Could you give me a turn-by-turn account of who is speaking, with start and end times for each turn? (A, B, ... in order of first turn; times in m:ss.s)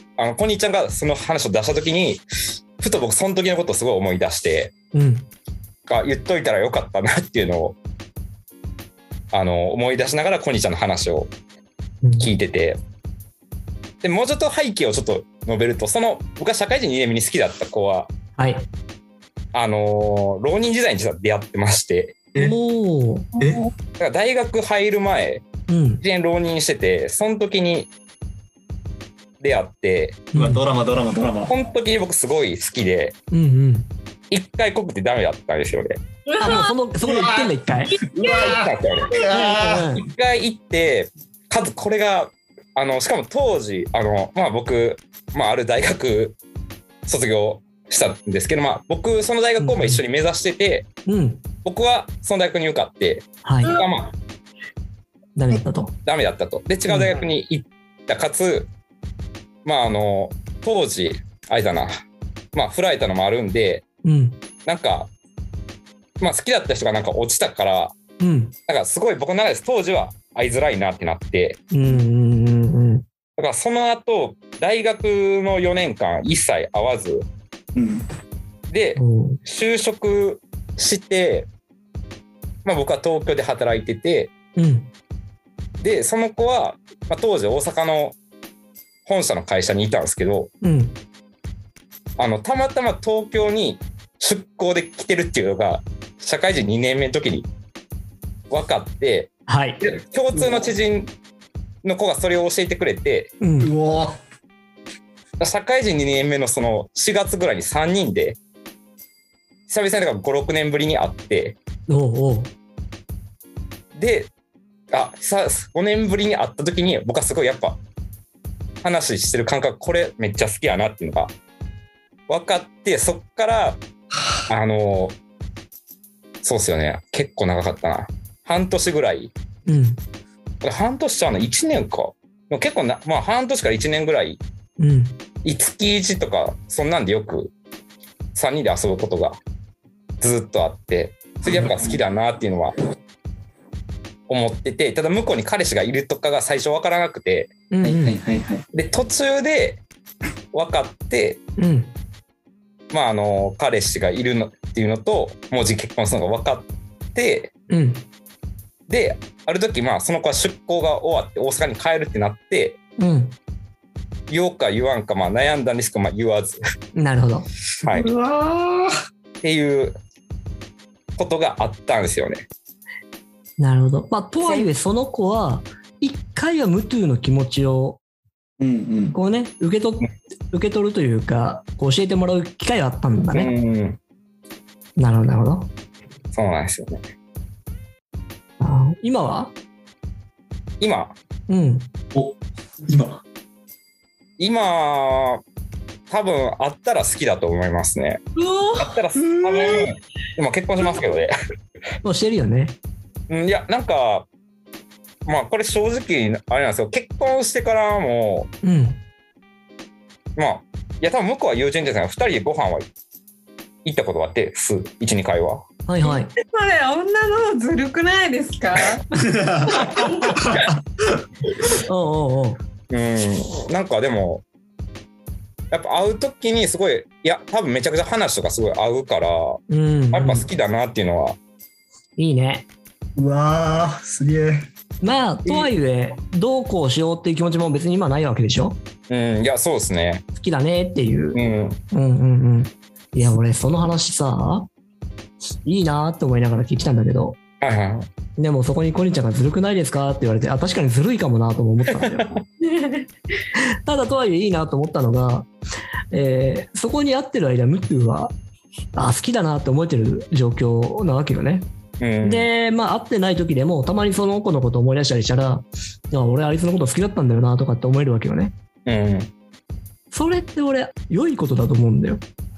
0:00.2-0:02.2 A
0:02.8-0:04.7 A
0:04.9-0:05.3 B
0:05.9-0:07.8 A
0:09.3-0:11.3 A
0:12.0-0:12.3 B
0:12.2-0:12.8 A
0:14.0-0:18.1 A
0:18.4-0:18.7 B
0:19.5-0:22.2 A
0:22.4-0:23.3 B
0:23.4-0:23.7 C
0:24.0-0:25.5 A
0:25.7-0:26.0 B
0:26.0-0:27.9 A
0:29.4-0:30.3 A
0:30.3-0:30.6 B
0:30.3-0:31.5 D
0:31.5-0:33.2 A
0:33.3-0:33.9 B
0:34.3-0:36.0 A
0:36.3-0:36.7 C
0:36.4-0:38.0 B
0:37.0-0:37.5 D
0:37.9-0:38.6 C
0:38.2-0:38.6 D
0:38.2-0:46.4 A
0:39.1-0:39.9 D
0:39.3-0:40.0 B
0:47.1-0:50.9 A
0:49.6-0:50.0 B
0:51.1-0:51.4 B
0:51.6-0:54.2 A
0:53.4-0:53.8 B
0:55.4-0:56.0 B
0:56.0-0:58.7 A
0:56.9-0:57.2 B
0:59.6-1:02.0 A
1:02.5-1:03.8 A
1:04.0-1:04.4 B
1:04.6-1:05.1 A
1:06.2-1:08.0 A
1:08.2-1:08.5 B
1:08.7-1:11.6 A
1:11.7-1:13.0 B
1:13.4-1:17.3 A
1:17.8-1:18.0 D
1:18.7-1:21.5 A
1:19.0-1:19.4 B
1:22.6-1:24.3 A
1:24.6-1:24.9 B
1:25.8-1:28.2 A
1:29.1-1:30.5 A
1:30.6-1:31.0 B
1:32.2-1:37.5 A
1:38.5-1:41.1 A
1:39.5-1:39.8 B
1:41.8-1:43.3 A
1:43.4-1:43.7 B
1:43.6-1:44.1 D
1:45.4-1:48.4 A
1:49.7-1:51.6 A
1:51.9-1:52.5 B
1:54.0-1:54.3 A
1:54.9-1:57.8 A
1:58.8-2:01.3 A
2:02.3-2:03.8 A
2:04.5-2:05.2 A
2:06.4-2:09.3 A
2:09.7-2:10.0 B
2:10.6-2:14.4 A
2:14.8-2:15.2 B
2:15.4-2:17.5 A
2:18.4-2:19.4 A
2:20.2-2:22.8 A
2:21.4-2:22.0 D
2:24.3-2:27.5 A
2:27.7-2:28.2 B
2:27.8-2:28.6 D
2:28.7-2:29.8 A
2:30.5-2:31.4 A
2:31.6-2:31.9 B
2:32.9-2:37.5 A
2:37.7-2:38.0 B
2:38.9-2:42.8 A
2:43.0-2:43.4 B
2:44.3-2:46.6 A
2:47.0-2:47.5 B
2:47.8-2:48.1 A
2:48.0-2:48.9 D
2:49.4-2:50.0 A
2:51.2-2:52.5 A
2:53.6-2:58.0 B
2:54.4-2:54.7 A
2:58.6-2:59.2 D
2:59.1-3:03.5 B
3:03.3-3:04.0 A
3:05.0-3:05.7 B
3:06.3-3:07.0 A
3:08.6-3:09.5 B
3:10.8-3:11.2 A
3:11.5-3:11.9 B
3:12.1-3:13.2 D
3:14.4-3:15.4 A
3:16.1-3:18.2 A
3:18.4-3:19.0 C
3:18.8-3:21.3 A
3:22.0-3:22.8 B
3:23.3-3:24.3 A
3:25.3-3:28.5 A
3:28.6-3:29.0 B
3:30.4-3:32.9 A
3:33.8-3:35.6 A
3:35.9-3:36.3 B
3:36.0-3:39.0 C
3:39.2-3:39.9 D
3:39.8-3:40.3 C
3:41.8-3:42.6 B
3:42.9-3:44.4 A
3:45.7-3:49.6 A
3:49.7-3:50.5 B
3:50.1-3:51.4 A
3:52.2-3:52.7 B
3:53.2-3:54.7 D
3:55.0-3:58.8 B
3:55.5-3:55.7 A
3:59.1-4:00.2 A
4:00.3-4:01.4 B
4:01.3-4:01.8 A
4:01.9-4:04.7 B
4:05.6-4:07.4 B
4:07.6-4:08.1 A
4:08.4-4:12.4 B
4:12.6-4:13.1 C
4:13.6-4:15.5 B
4:16.1-4:18.4 B
4:19.0-4:21.7 B
4:22.0-4:22.5 A
4:22.2-4:28.5 B
4:28.9-4:29.3 A
4:30.1-4:32.2 B